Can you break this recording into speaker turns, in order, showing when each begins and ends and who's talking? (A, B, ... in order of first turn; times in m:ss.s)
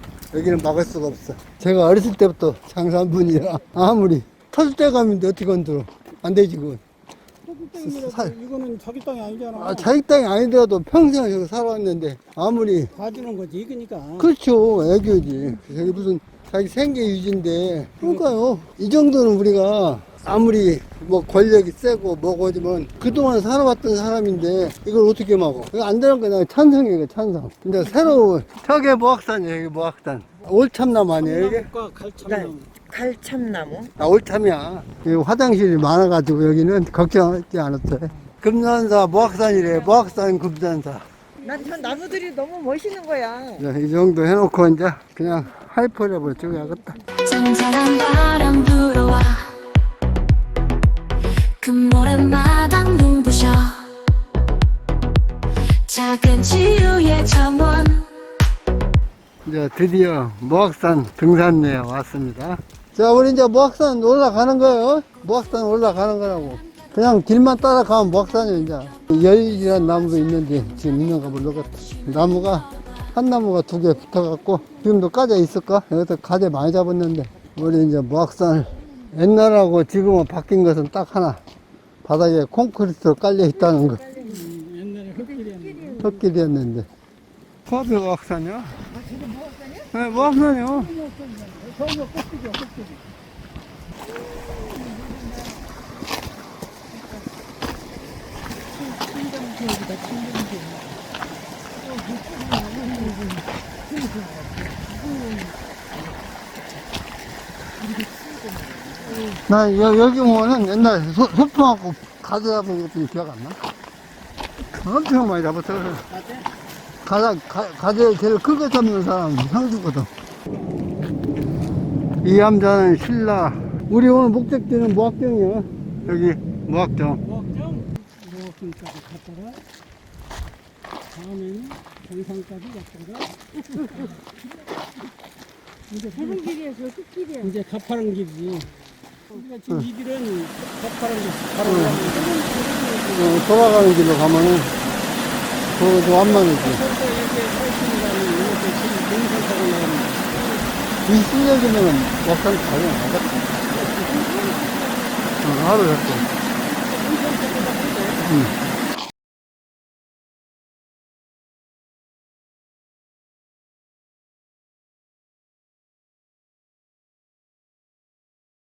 0:00.3-0:06.8 A
0:07.4-0:09.9 B
0:07.8-0:08.3 A
0:09.6-0:13.0 A
0:13.0-0:14.3 B
0:14.2-0:31.7 A
0:31.2-0:32.8 B
0:32.8-0:33.9 C
0:34.0-0:41.1 A
0:41.4-0:43.6 C
0:43.6-0:47.0 A
0:47.2-0:49.6 D
0:51.6-0:53.9 D
0:55.9-0:58.1 D
0:59.4-1:21.4 A
1:22.0-1:24.1 A
1:24.2-1:26.0 B
1:26.0-1:26.9 A
1:27.7-1:28.9 A
1:29.0-1:29.8 C
1:29.9-1:30.9 A
1:31.0-1:33.0 B
1:34.5-1:35.2 C
1:38.9-1:40.8 C
1:42.1-1:43.2 C
1:44.0-1:44.5 C
1:47.9-1:49.2 C
1:49.3-1:53.6 A
1:54.8-1:56.1 A
1:56.1-1:56.4 B
1:57.0-2:00.1 A
2:02.2-2:07.2 A
2:07.2-2:09.6 B
2:11.1-2:13.3 B
2:15.9-2:16.7 B
2:16.5-2:17.4 C
2:17.4-2:18.7 B
2:19.3-2:23.4 B
2:21.6-2:22.1 A
2:23.1-2:24.8 A
2:25.7-2:26.8 A
2:26.4-2:30.4 B
2:31.0-2:33.5 A
2:33.8-2:35.2 B
2:35.4-2:36.3 A
2:36.8-2:38.2 B
2:38.2-2:38.6 A